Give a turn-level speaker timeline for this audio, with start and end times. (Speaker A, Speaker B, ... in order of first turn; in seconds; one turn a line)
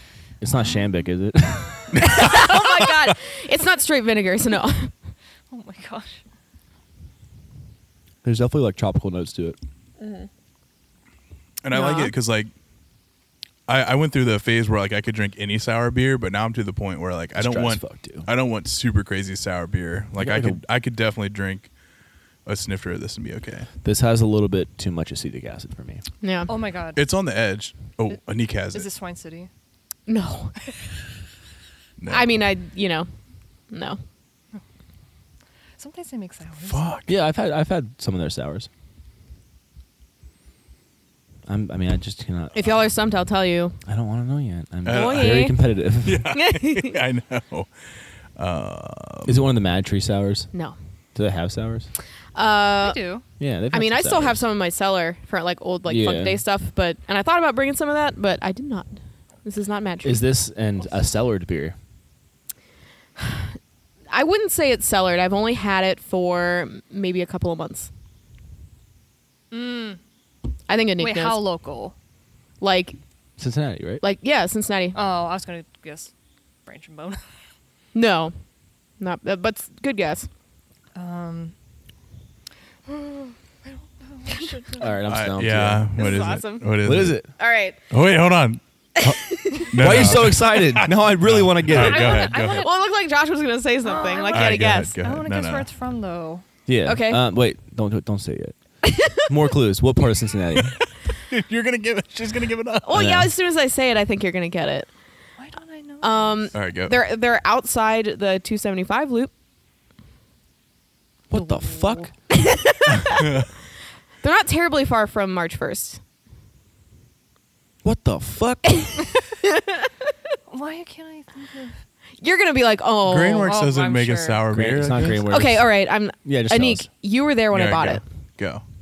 Speaker A: 0.4-2.3
Speaker B: 1.9-2.7
Speaker C: 2.0-4.9
Speaker D: 5.5-6.2
Speaker A: 8.2-9.6
Speaker C: 10.0-10.3
Speaker B: 11.6-12.5
Speaker C: 11.7-12.1
Speaker B: 13.7-21.7
Speaker A: 17.4-18.3
Speaker A: 20.2-20.6
Speaker B: 22.5-23.7
Speaker A: 23.8-26.0
Speaker C: 26.2-26.5
Speaker D: 26.5-27.0
Speaker B: 27.0-28.9
Speaker D: 28.7-29.5
Speaker C: 30.1-30.5
Speaker B: 32.0-32.3
Speaker C: 32.1-33.1
Speaker C: 33.7-34.0
Speaker D: 35.8-36.9
Speaker B: 36.6-37.1
Speaker A: 37.1-38.7
Speaker A: 41.5-42.8
Speaker C: 42.6-43.8
Speaker A: 43.9-46.3
Speaker B: 44.9-47.7
Speaker C: 44.9-45.6
Speaker C: 46.3-47.0
Speaker B: 48.4-49.4
Speaker A: 49.3-50.5
Speaker A: 51.1-51.9
Speaker C: 52.4-53.0
Speaker D: 52.8-53.2
Speaker A: 53.4-54.5
Speaker C: 53.7-58.9
Speaker A: 55.9-56.4
Speaker C: 59.4-60.3
Speaker A: 60.0-61.8
Speaker C: 63.2-63.5
Speaker C: 64.1-67.9
Speaker D: 69.5-70.0
Speaker C: 70.7-71.4
Speaker D: 71.0-71.9
Speaker C: 72.6-73.0
Speaker A: 73.4-74.0
Speaker C: 74.0-75.0
Speaker D: 74.9-76.1
Speaker D: 76.7-77.3
Speaker C: 77.9-78.3
Speaker C: 79.0-80.3
Speaker D: 81.0-81.5
Speaker D: 82.9-84.9
Speaker A: 84.7-85.9
Speaker B: 85.1-87.2
Speaker C: 86.0-86.8
Speaker A: 86.8-87.3
Speaker C: 87.4-87.8
Speaker B: 87.9-92.7
Speaker C: 89.0-89.9
Speaker A: 89.7-92.3
Speaker D: 91.7-92.7
Speaker C: 92.5-95.0
Speaker D: 93.8-96.4
Speaker B: 94.3-95.7
Speaker A: 96.7-98.6
Speaker C: 96.8-97.2
Speaker C: 98.8-99.3
Speaker A: 99.2-100.8
Speaker B: 100.6-103.1
Speaker C: 102.8-104.9
Speaker A: 102.9-103.3
Speaker D: 105.4-106.5
Speaker C: 106.0-109.3
Speaker B: 106.5-107.0
Speaker A: 111.3-112.1
Speaker D: 111.3-112.1
Speaker C: 112.4-113.4
Speaker C: 114.2-116.0
Speaker A: 117.8-118.9
Speaker C: 119.4-119.9
Speaker D: 120.5-121.8
Speaker C: 122.2-123.5
Speaker B: 123.0-125.3
Speaker D: 123.4-124.5
Speaker A: 124.5-126.9
Speaker C: 125.2-128.0
Speaker B: 127.5-128.6